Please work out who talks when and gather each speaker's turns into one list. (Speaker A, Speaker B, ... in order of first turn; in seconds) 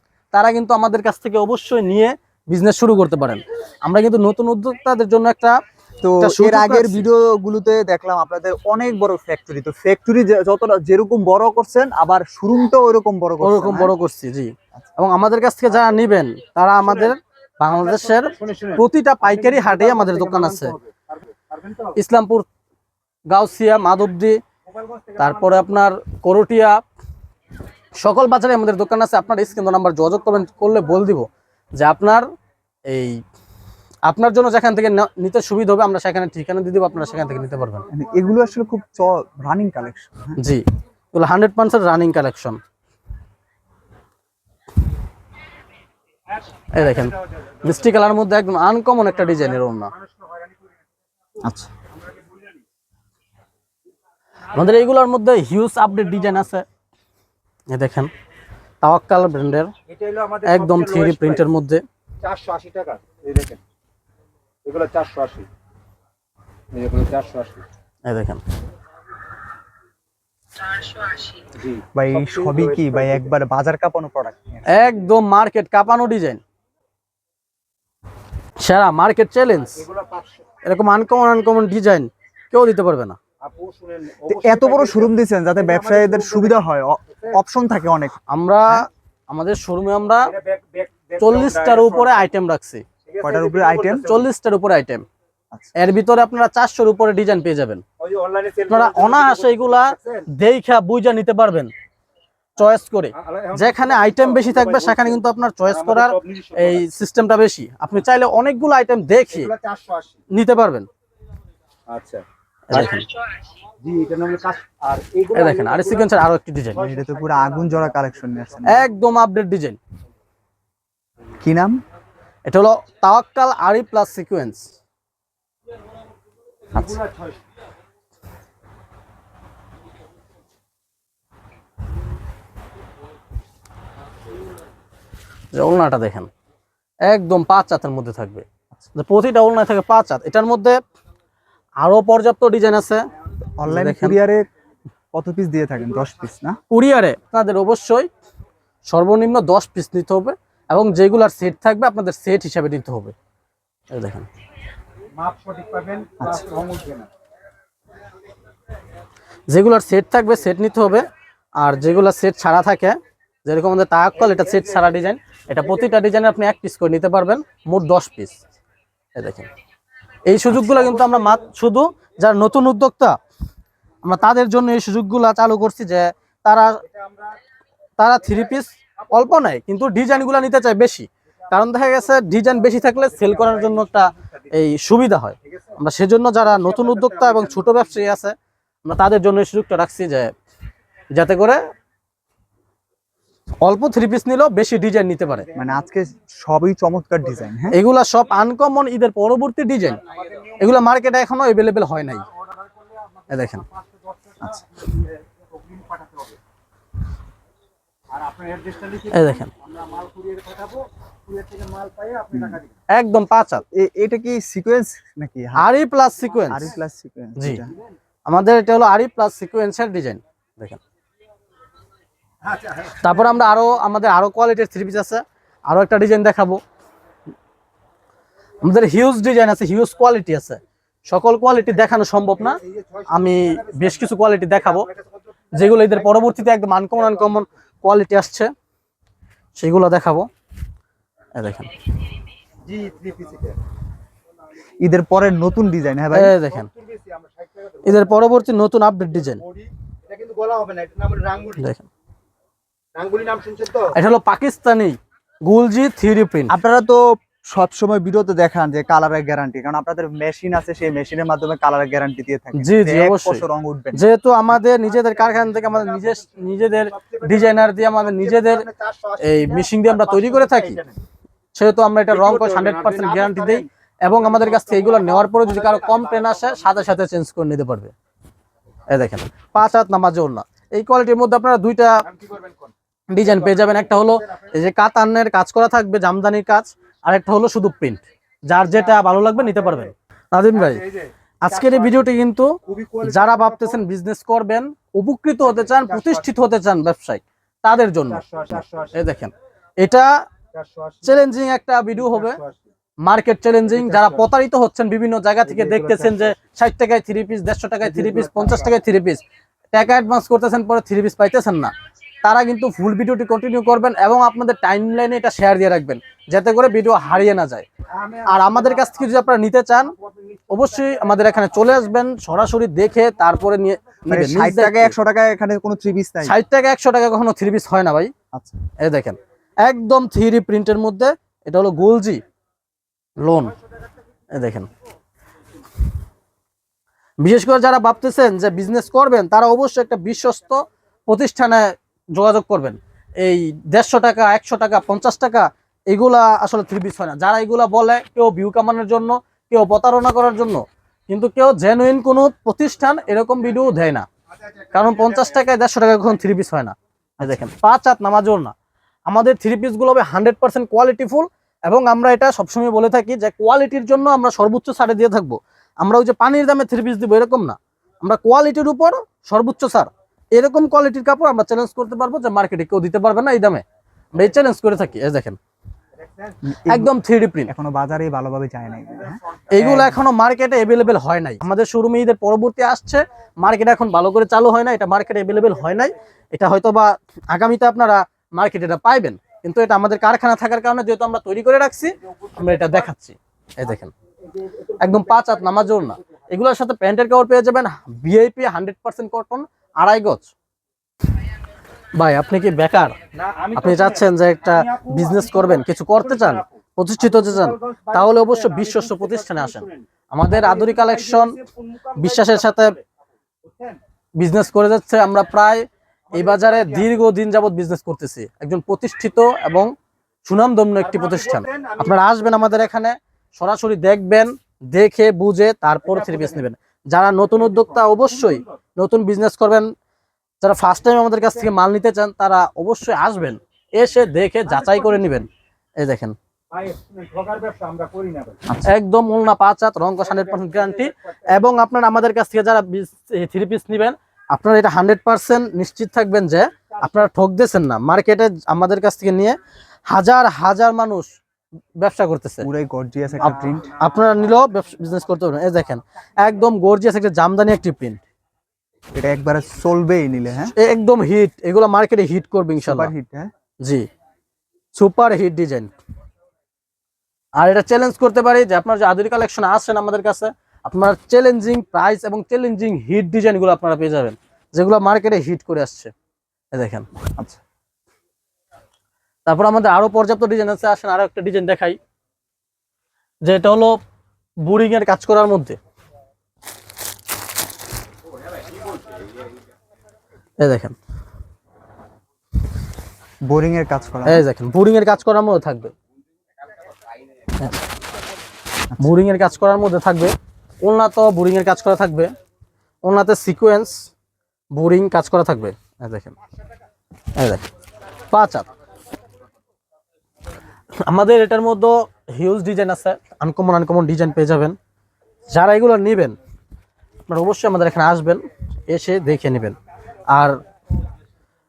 Speaker A: 0.3-5.6, 6.2-7.1, 13.4-20.7, 22.0-22.5, 23.3-24.4, 25.2-26.8, 28.0-32.3, 32.9-33.2, 34.1-37.9, 40.4-42.6, 46.7-49.9, 54.5-56.7, 57.7-58.1, 58.8-59.7, 60.4-61.8, 68.1-68.4, 74.7-76.4, 78.6-79.8, 80.6-83.2, 88.3-90.3, 91.2-92.8, 94.0-95.0, 95.8-97.8, 98.7-101.7, 102.6-109.5, 110.3-110.9, 112.7-113.1, 115.3-116.8, 118.7-119.8, 122.5-124.7, 135.5-136.3, 137.1-140.8, 141.8-143.1, 143.7-144.2, 146.7-148.1, 148.9-153.2, 153.9-154.3, 159.5-161.1, 161.6-168.4, 169.2-169.5, 170.3-173.2, 174.0-176.8, 178.0-190.3, 191.1-191.6, 193.6-195.5, 197.7-200.0, 200.6-202.2, 203.3-203.7, 209.1-209.5, 212.9-213.6, 215.6-216.7, 218.3-220.8, 222.8-226.6, 228.6-234.9, 235.5-238.5, 239.6-240.3, 241.4-241.7, 246.1-246.7, 247.8-249.4, 251.6-251.9, 253.9-256.5, 262.6-268.7, 269.2-270.8, 271.6-277.9, 278.9-282.1, 283.1-290.8, 291.4-300.1, 301.0-302.4, 303.0-309.2, 309.7-311.7, 312.2-317.7, 318.3-319.9, 320.5-324.9, 326.2-328.1, 328.8-332.2, 333.2-333.5, 334.3-334.7, 337.2-354.1, 354.7-358.5, 359.1-375.4, 376.7-377.5, 379.5-393.9, 394.8-400.3, 402.0-403.0, 403.5-411.4, 412.0-412.8, 414.2-419.7, 420.3-429.7, 430.4-436.2, 438.6-451.1, 451.8-452.5, 453.2-458.0, 460.6-462.9, 463.6-463.9, 464.8-465.7, 467.4-475.9, 476.5-476.9, 479.3-481.8, 483.2-483.8, 484.4-485.6, 490.4-490.8, 494.1-495.7, 498.8-502.1, 502.8-503.8, 504.5-506.1, 507.2-507.5, 508.1-508.4, 510.8-514.6, 515.3-516.2, 517.1-519.6, 520.1-520.4
Speaker B: 6.0-13.9, 37.9-40.4, 51.4-51.7, 71.9-74.7, 84.3-88.2, 93.2-94.1, 116.8-118.9, 121.4-121.8, 126.8-127.0, 143.6-144.5, 145.1-146.6, 195.6-197.8, 213.7-215.7, 216.5-217.7, 244.8-246.3, 256.5-264.1, 324.1-326.4, 328.3-328.6, 376.5-376.9, 377.5-379.9, 452.4-453.7, 458.9-460.5, 462.6-463.3, 493.2-494.3
Speaker C: 17.6-21.9, 24.7-25.7, 49.9-50.6, 52.0-52.5, 59.9-61.5, 62.2-63.6, 64.7-65.5, 66.7-67.7, 71.5-73.3, 79.6-80.5, 83.4-86.6, 87.1-87.4, 90.2-92.3, 93.0-94.3, 98.0-100.3, 103.2-106.8, 109.3-110.2, 111.9-113.0, 113.8-116.2, 116.7-118.4, 126.8-127.4, 155.2-157.1, 176.9-177.3, 182.8-184.4, 185.5-185.8, 186.5-188.0, 195.5-195.8, 200.0-200.8, 202.4-206.4, 208.1-212.7, 222.5-223.0, 232.4-236.1, 242.7-243.6, 246.5-248.2, 249.4-251.7, 252.9-253.9, 264.9-271.0, 272.1-273.7, 274.2-276.4, 282.1-282.7, 290.6-292.0, 292.7-293.8, 295.6-296.3, 298.1-299.1, 300.5-301.2, 302.0-302.6, 303.7-304.3, 305.4-306.3, 307.8-308.7, 317.9-319.1, 320.0-320.4, 376.0-376.4, 394.3-395.6, 403.1-406.5, 407.0-412.8, 413.4-413.8, 416.1-416.9, 420.8-422.0, 425.9-426.4, 427.5-428.3, 434.5-435.0, 436.5-438.4, 440.0-441.1